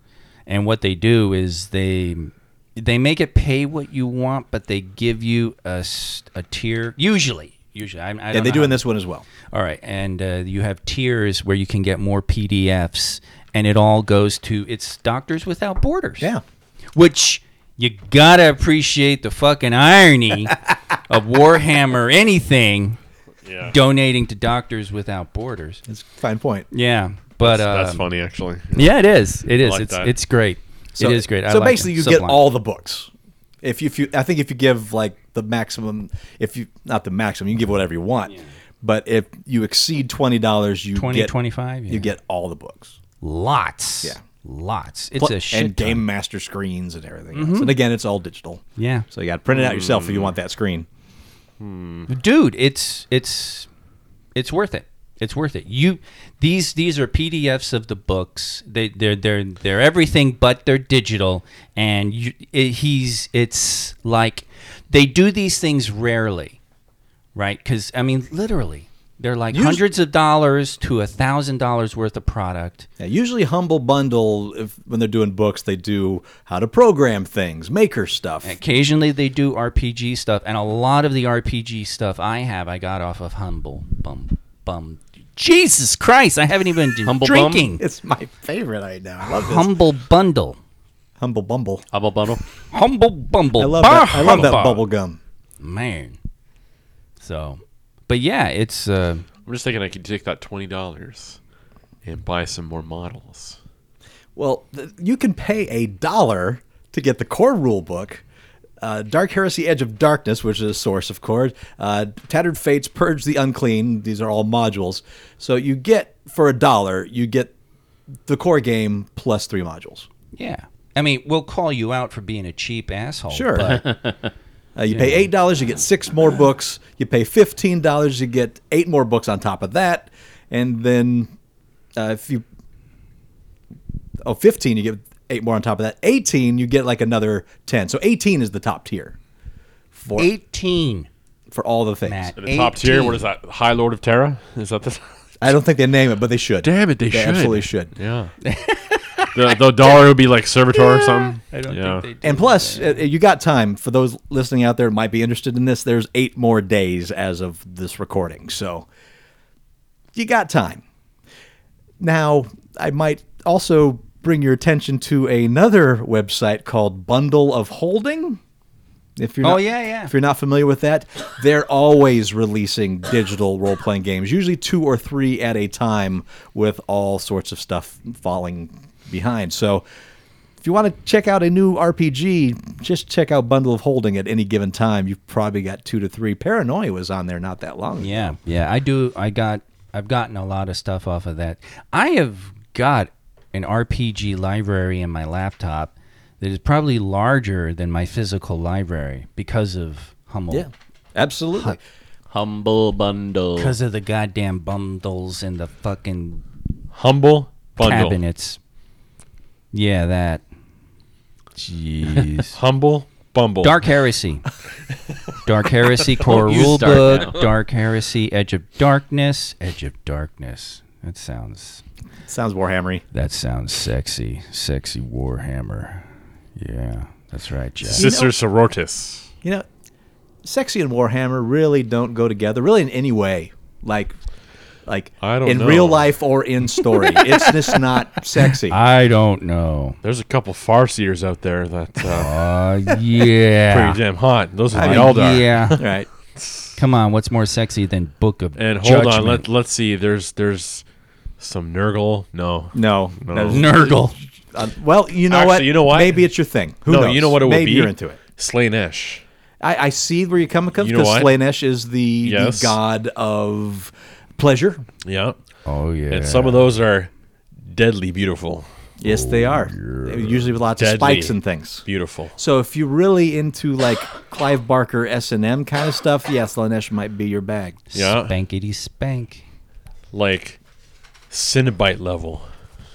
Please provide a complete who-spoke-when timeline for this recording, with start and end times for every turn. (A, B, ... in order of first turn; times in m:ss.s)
0:00.5-0:08.8 A
0:08.3-0:09.2 B
0:09.5-0:16.3 A
0:16.9-0:23.0 A
0:23.4-0:23.8 C
0:23.6-0:25.8 A
0:25.9-0:26.7 B
0:26.7-0:28.0 A
0:27.4-0:28.9 C
0:28.7-0:32.4 A
0:29.6-0:30.1 C
0:30.9-0:33.1 B
0:33.6-0:41.3 B
0:40.9-0:42.1 A
0:41.9-0:43.0 B
0:43.2-0:46.0 A
0:45.2-0:50.9 B
0:47.3-0:47.8 A
0:48.8-0:49.1 A
0:49.5-0:50.3 C
0:51.6-0:52.1 C
0:52.1-0:53.7 A
0:54.3-1:06.6 A
1:07.3-1:12.9 A
1:09.5-1:09.8 B
1:13.0-1:18.6 B
1:18.4-1:27.8 A
1:27.0-1:27.7 D
1:27.8-1:29.8 B
1:29.4-1:30.6 A
1:31.2-1:31.8 B
1:31.9-1:32.4 D
1:32.7-1:34.8 A
1:33.6-1:35.2 B
1:35.6-1:36.2 A
1:37.2-1:39.2 A
1:39.4-1:41.4 C
1:42.0-1:43.6 C
1:44.4-1:48.2 B
1:48.8-1:57.5 B
1:58.3-2:00.1 B
2:00.3-2:03.8 A
2:03.3-2:03.8 B
2:03.8-2:04.1 D
2:04.8-2:11.3 B
2:04.9-2:05.3 A
2:12.0-2:12.4 B
2:14.2-2:19.2 B
2:19.9-2:20.3 B
2:20.2-2:21.1 A
2:21.5-2:22.3 B
2:22.0-2:23.2 A
2:22.4-2:25.1 C
2:25.4-2:27.9 B
2:26.6-2:28.3 C
2:28.4-2:29.4 A
2:29.3-2:32.0 C
2:30.7-2:33.0 A
2:32.2-2:38.9 B
2:40.1-2:40.8 B
2:42.0-2:48.4 B
2:49.2-2:59.8 B
2:49.4-2:50.1 A
3:00.6-3:08.3 B
3:08.0-3:20.7 A
3:20.5-3:21.8 B
3:22.3-3:23.7 D
3:23.6-3:26.4 A
3:26.9-3:28.2 C
3:27.8-3:28.6 A
3:29.7-3:30.4 A
3:31.6-3:32.6 A
3:32.5-3:33.8 C
3:33.6-3:34.4 A
3:35.4-3:41.8 A
3:36.2-3:37.4 D
3:42.2-3:43.0 B
3:43.1-3:46.0 A
3:46.6-3:48.1 A
3:47.8-3:49.3 C
3:47.9-3:48.3 B
3:50.4-3:54.1 B
3:54.8-3:58.8 B
3:55.2-3:56.1 C
3:57.1-3:57.4 A
3:58.6-4:00.0 A
4:00.0-4:02.4 C
4:02.1-4:04.0 A
4:03.7-4:06.7 C
4:04.7-4:05.8 A
4:04.7-4:06.1 B
4:06.8-4:09.4 A
4:08.6-4:10.8 C
4:11.4-4:13.6 C
4:12.7-4:18.2 B
4:13.4-4:14.2 A
4:15.3-4:16.3 C
4:16.8-4:19.2 C
4:19.6-4:24.8 B
4:20.8-4:21.3 C
4:22.2-4:22.8 C
4:25.0-4:25.4 C
4:25.6-4:26.7 A
4:26.1-4:27.1 C
4:27.6-4:28.7 C
4:29.0-4:31.8 B
4:29.0-4:30.5 A
4:30.8-4:32.4 C
4:32.4-4:37.9 B
4:37.9-4:38.3 C
4:38.0-4:39.4 A
4:40.1-4:40.6 C
4:41.3-4:42.5 C